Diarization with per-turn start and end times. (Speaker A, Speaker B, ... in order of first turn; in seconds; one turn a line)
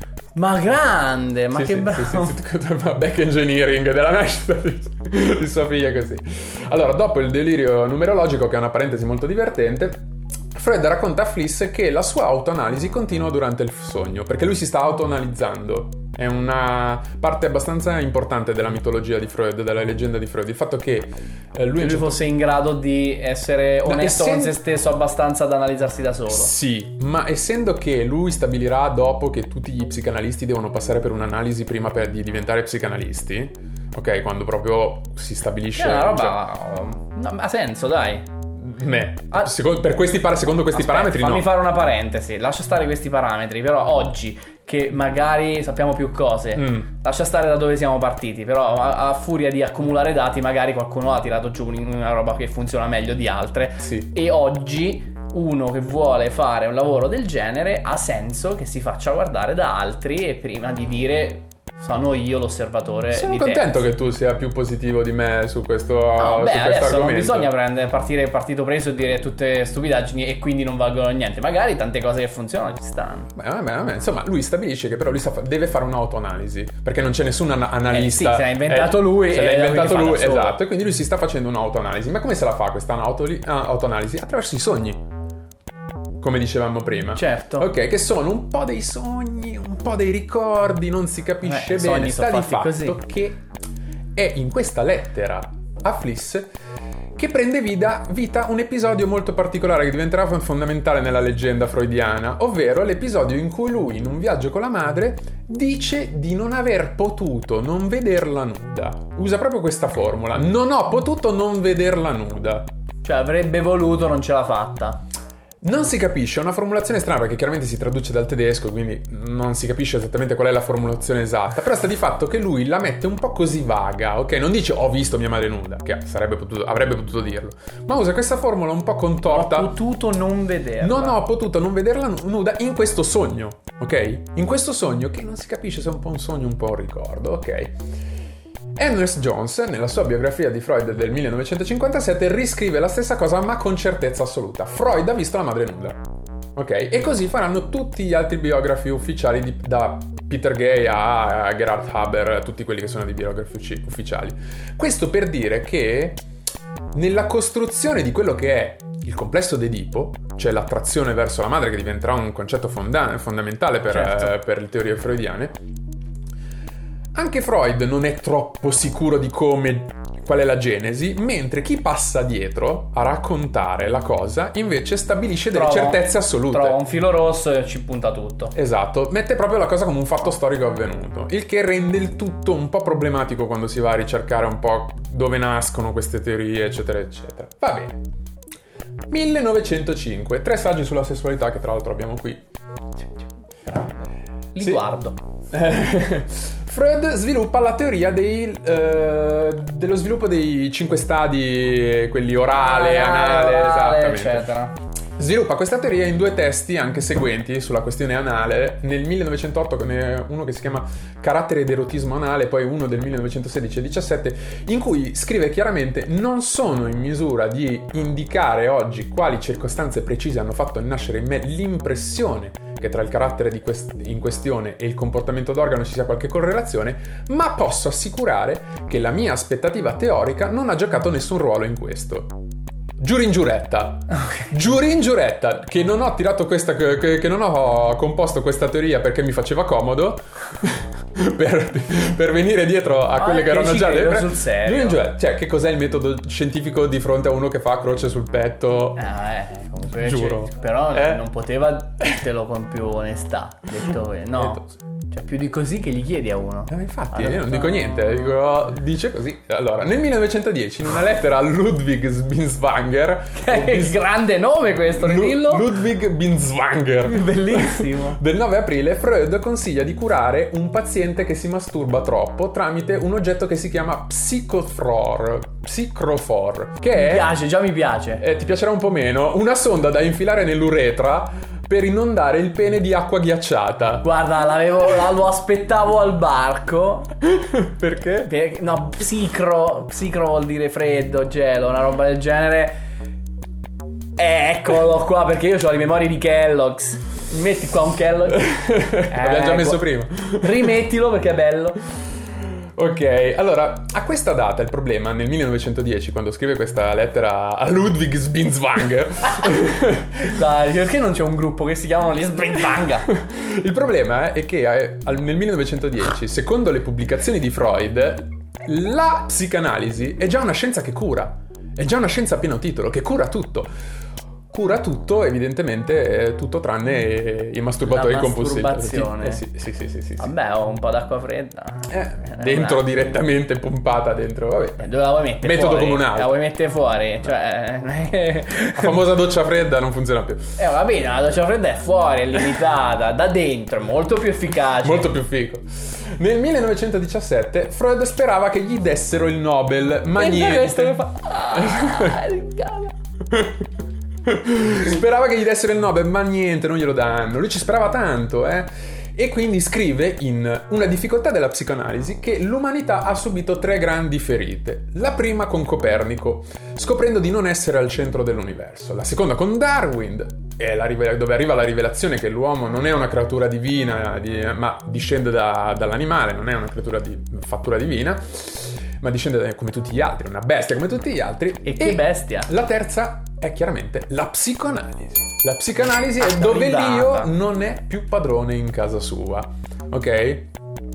Speaker A: 0.3-2.4
Speaker B: 1.5-22.2
Speaker A: 21.8-26.5
Speaker B: 23.9-24.6
Speaker B: 26.3-36.4
Speaker A: 35.8-38.2
Speaker B: 38.6-41.5
Speaker A: 40.7-63.9
Speaker B: 46.5-46.9
Speaker B: 53.8-54.1
Speaker B: 63.1-67.5
Speaker A: 66.2-73.3
Speaker B: 73.3-85.0
Speaker A: 77.9-80.6
Speaker B: 86.2-93.4
Speaker A: 87.2-87.7
Speaker A: 91.4-93.0
Speaker B: 94.2-96.5
Speaker B: 97.2-112.7
Speaker A: 113.0-115.0
Speaker B: 115.6-129.7
Speaker A: 129.3-131.2
Speaker B: 130.8-137.8
Speaker B: 138.8-146.1
Speaker B: 146.6-156.2
Speaker B: 156.9-165.6
Speaker A: 163.9-164.3
Speaker B: 167.2-176.8
Speaker A: 175.5-178.5
Speaker B: 178.5-188.0
Speaker B: 189.1-192.4
Speaker A: 193.7-195.2
Speaker B: 194.6-194.9
Speaker B: 195.5-204.6
Speaker A: 202.6-204.8
Speaker B: 205.2-232.4
Speaker B: 233.0-249.0
Speaker A: 243.2-245.0
Speaker A: 249.0-257.8
Speaker B: 250.0-251.2
Speaker B: 254.4-254.7
Speaker B: 256.7-264.0
Speaker A: 263.4-265.7
Speaker B: 265.0-277.3
Speaker A: 267.1-268.2
Speaker A: 276.9-278.2
Speaker B: 278.2-284.1
Speaker A: 284.0-287.1
Speaker B: 287.3-288.3
Speaker A: 288.2-292.8
Speaker A: 294.2-298.5
Speaker B: 298.3-300.6
Speaker A: 299.1-301.8
Speaker B: 302.8-310.3
Speaker A: 310.2-313.1
Speaker B: 313.1-323.7
Speaker B: 324.5-330.3
Speaker A: 327.9-329.4
Speaker A: 330.2-333.1
Speaker B: 331.9-334.9
Speaker A: 334.8-339.0
Speaker B: 335.4-336.4
Speaker B: 338.8-340.6
Speaker A: 340.6-345.1
Speaker B: 344.8-351.0
Speaker A: 350.2-352.9
Speaker B: 351.5-352.2
Speaker B: 353.3-353.6
Speaker B: 354.3-390.5
Speaker A: 381.6-382.5
Speaker A: 386.2-387.3